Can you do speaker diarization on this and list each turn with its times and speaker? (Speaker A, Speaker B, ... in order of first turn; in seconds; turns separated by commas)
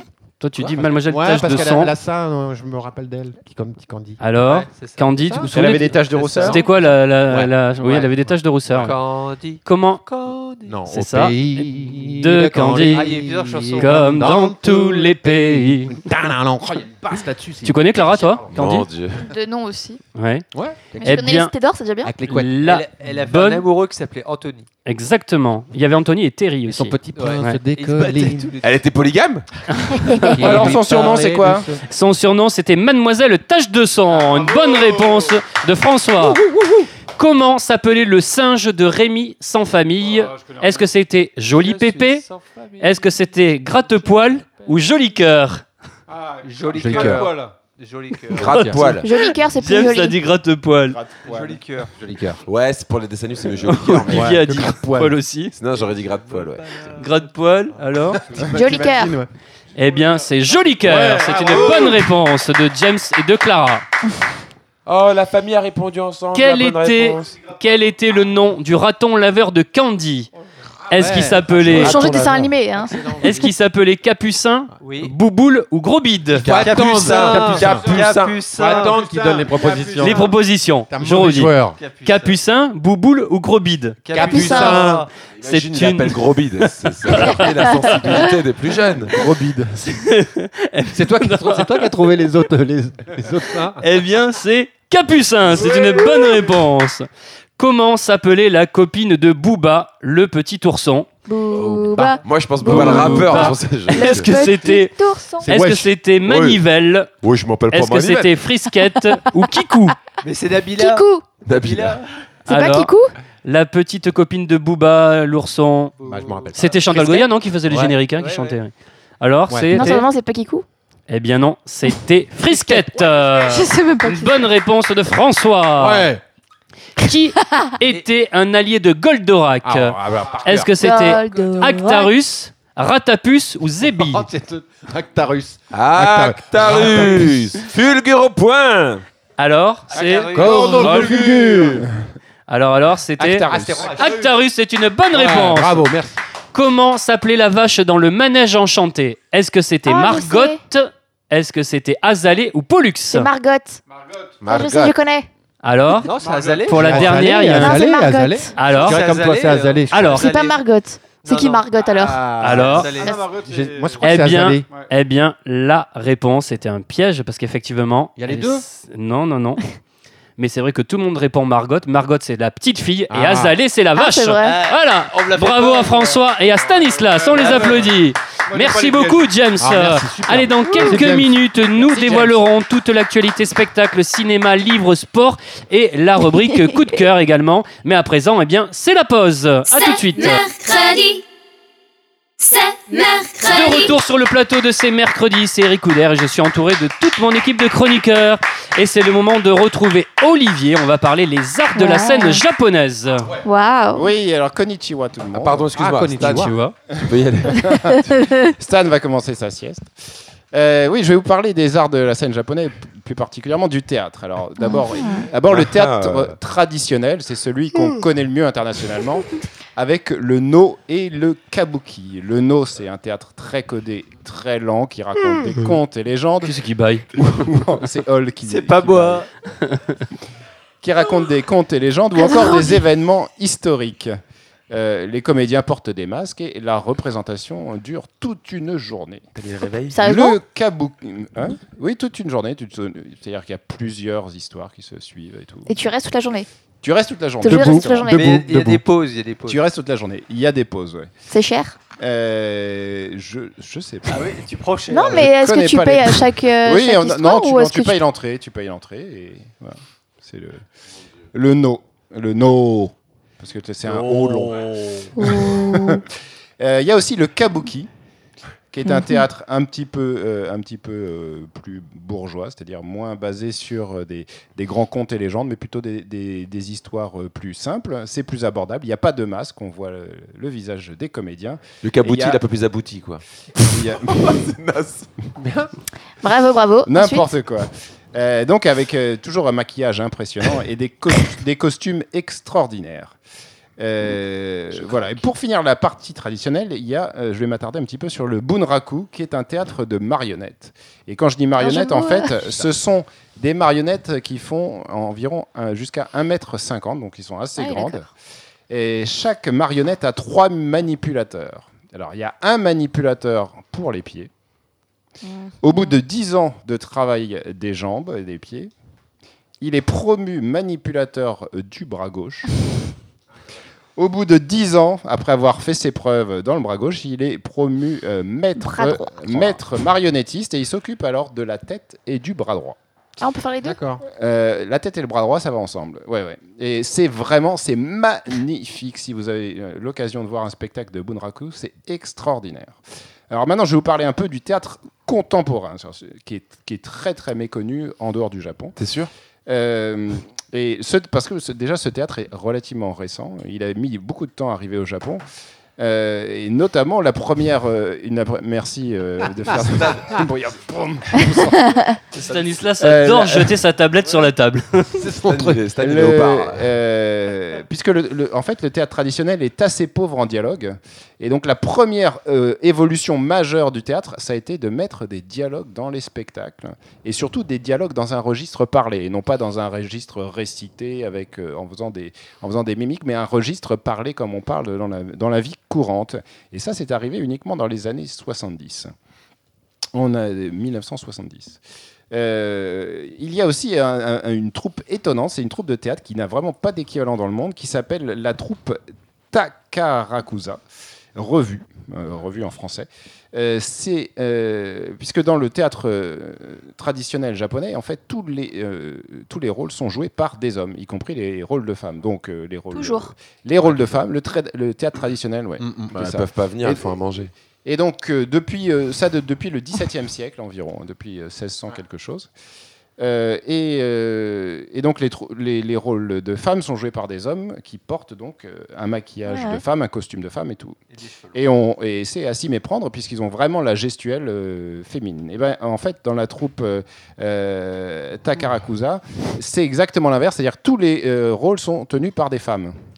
Speaker A: 0.4-1.9, Speaker B: 0.6-4.2, Speaker A: 4.2-9.0, Speaker C: 4.4-6.8, Speaker D: 5.5-6.6, Speaker C: 8.7-10.8, Speaker A: 9.6-10.0, Speaker B: 10.7-18.7, Speaker A: 10.9-13.1, Speaker C: 12.8-14.3, Speaker A: 13.8-15.9, Speaker A: 17.6-18.9, Speaker E: 18.5-19.3, Speaker F: 19.2-20.0, Speaker A: 20.1-20.4, Speaker B: 20.5-21.2, Speaker F: 21.0-22.1, Speaker A: 21.0-21.5, Speaker B: 22.0-22.6, Speaker A: 22.3-23.6, Speaker C: 22.6-24.7, Speaker A: 24.8-27.6, Speaker B: 26.7-28.5, Speaker C: 27.1-28.8, Speaker E: 28.6-29.5, Speaker A: 29.9-31.1, Speaker F: 30.1-30.3, Speaker B: 30.2-31.8, Speaker D: 30.3-31.7, Speaker A: 31.8-36.5, Speaker B: 36.2-36.9, Speaker A: 37.1-42.2, Speaker C: 41.5-43.2, Speaker A: 42.8-45.6, Speaker C: 43.9-44.7, Speaker C: 46.1-48.6, Speaker B: 46.7-47.3, Speaker E: 48.3-49.1, Speaker B: 48.4-49.0, Speaker A: 48.4-51.0, Speaker F: 49.0-50.2, Speaker D: 50.9-51.6, Speaker C: 51.2-52.0, Speaker B: 51.9-52.4, Speaker E: 52.4-54.4, Speaker A: 53.6-55.5, Speaker B: 54.1-55.2, Speaker E: 55.5-56.8, Speaker C: 55.8-57.8, Speaker A: 56.9-58.2, Speaker B: 58.1-59.3, Speaker F: 58.5-59.2, Speaker A: 59.8-63.8, Speaker B: 60.8-62.0, Speaker E: 64.8-67.3, Speaker A: 66.3-70.3, Speaker B: 70.9-73.5, Speaker A: 70.9-72.0, Speaker F: 71.7-73.2, Speaker E: 71.8-72.1, Speaker A: 73.2-76.5, Speaker C: 74.8-75.1, Speaker B: 76.4-78.0, Speaker E: 76.4-78.4, Speaker C: 76.5-79.1, Speaker B: 78.5-80.3, Speaker A: 79.8-84.0, Speaker B: 80.9-81.8, Speaker C: 81.8-82.4, Speaker C: 84.0-85.1, Speaker B: 84.1-85.1, Speaker F: 84.2-84.9, Speaker E: 85.4-89.2, Speaker A: 85.4-88.2, Speaker B: 89.1-89.8, Speaker A: 89.8-91.9, Speaker B: 90.9-93.8, Speaker A: 93.8-97.1, Speaker A: 97.6-101.1, Speaker F: 101.2-105.5, Speaker B: 101.6-102.2, Speaker E: 102.2-104.3, Speaker A: 102.6-107.1, Speaker B: 105.4-105.9, Speaker E: 106.2-106.6, Speaker E: 107.2-108.3, Speaker A: 107.7-110.0, Speaker C: 110.2-112.1, Speaker F: 110.8-111.2, Speaker E: 111.4-112.0, Speaker A: 112.5-112.9, Speaker F: 112.5-113.1, Speaker A: 113.4-115.9, Speaker C: 116.0-118.6, Speaker B: 116.0-116.8, Speaker A: 116.5-120.1, Speaker B: 119.5-119.9, Speaker F: 119.7-120.6, Speaker A: 121.1-126.1, Speaker F: 123.4-124.5, Speaker B: 125.8-126.2, Speaker A: 127.0-134.2, Speaker B: 129.6-131.0, Speaker F: 130.8-132.1, Speaker B: 133.8-137.6, Speaker E: 135.7-139.0, Speaker A: 139.4-141.2, Speaker C: 139.9-141.0, Speaker B: 140.3-141.9, Speaker A: 142.5-145.9, Speaker D: 143.2-144.1, Speaker B: 143.5-144.2, Speaker B: 145.1-146.2, Speaker A: 146.5-153.3, Speaker F: 149.8-150.6, Speaker F: 153.1-153.8, Speaker E: 154.4-154.9, Speaker F: 154.4-155.3, Speaker A: 155.6-156.1, Speaker C: 156.0-157.4, Speaker A: 156.6-157.8, Speaker B: 156.7-160.3, Speaker F: 157.4-158.5, Speaker A: 158.6-159.0, Speaker C: 158.6-160.6, Speaker A: 159.9-160.2, Speaker F: 160.1-162.3, Speaker C: 161.2-161.8, Speaker B: 161.8-164.7, Speaker A: 162.4-162.9, Speaker C: 162.4-163.5, Speaker A: 164.0-169.6, Speaker B: 168.2-168.6, Speaker A: 170.4-190.4, Speaker B: 173.1-173.6, Speaker F: 173.9-174.6, Speaker C: 174.4-176.2, Speaker C: 177.2-177.9, Speaker B: 179.6-181.5, Speaker G: 189.7-191.2, Speaker G: 192.4-193.9, Speaker A: 193.5-203.3, Speaker F: 201.7-202.4, Speaker F: 203.4-204.1, Speaker D: 203.9-205.7, Speaker E: 205.3-208.0, Speaker B: 205.7-206.6, Speaker A: 206.2-206.7, Speaker D: 207.0-208.0, Speaker F: 208.1-208.5, Speaker D: 208.5-209.9, Speaker D: 210.5-226.6, Speaker F: 214.6-215.3, Speaker E: 215.5-216.3, Speaker A: 226.4-227.1, Speaker D: 227.1-229.2, Speaker C: 228.4-229.3, Speaker D: 230.8-234.2, Speaker F: 232.2-232.8, Speaker D: 234.7-239.2, Speaker E: 239.3-239.9, Speaker F: 239.9-240.4, Speaker D: 240.0-245.7, Speaker F: 245.7-246.5, Speaker D: 246.8-248.2, Speaker F: 247.4-248.2, Speaker B: 247.4-248.8, Speaker C: 248.1-249.6, Speaker D: 249.4-251.1, Speaker F: 251.3-251.8, Speaker D: 252.0-254.4, Speaker C: 254.1-255.3, Speaker F: 254.9-258.0, Speaker D: 255.1-260.6, Speaker D: 261.3-266.0, Speaker E: 263.9-264.9, Speaker F: 265.2-266.0, Speaker D: 266.6-267.9, Speaker D: 268.7-282.4, Speaker F: 268.9-269.2, Speaker E: 281.8-285.1, Speaker D: 283.6-284.4, Speaker B: 285.4-285.7, Speaker F: 286.2-287.3, Speaker D: 286.9-293.1, Speaker D: 293.8-308.1, Speaker F: 301.6-302.4, Speaker F: 307.6-308.0, Speaker D: 308.7-314.3, Speaker F: 315.2-316.0, Speaker D: 315.6-318.7, Speaker D: 319.6-322.5, Speaker D: 323.9-332.8, Speaker F: 328.6-329.1, Speaker F: 333.2-333.8, Speaker B: 333.6-334.0, Speaker D: 334.1-342.8, Speaker D: 343.3-348.8, Speaker E: 348.8-349.1, Speaker D: 349.5-355.2, Speaker D: 355.8-361.8, Speaker E: 359.6-360.0, Speaker A: 362.1-365.0, Speaker D: 362.8-363.6, Speaker B: 365.0-365.6, Speaker E: 365.2-366.7, Speaker D: 365.8-388.9, Speaker D: 389.9-391.6, Speaker D: 392.1-398.8, Speaker D: 399.3-400.6, Speaker D: 401.1-416.9, Speaker F: 412.7-413.1, Speaker B: 415.6-415.9, Speaker E: 415.9-417.3, Speaker D: 417.6-422.3, Speaker D: 423.0-430.8, Speaker F: 429.3-429.6, Speaker D: 431.3-442.7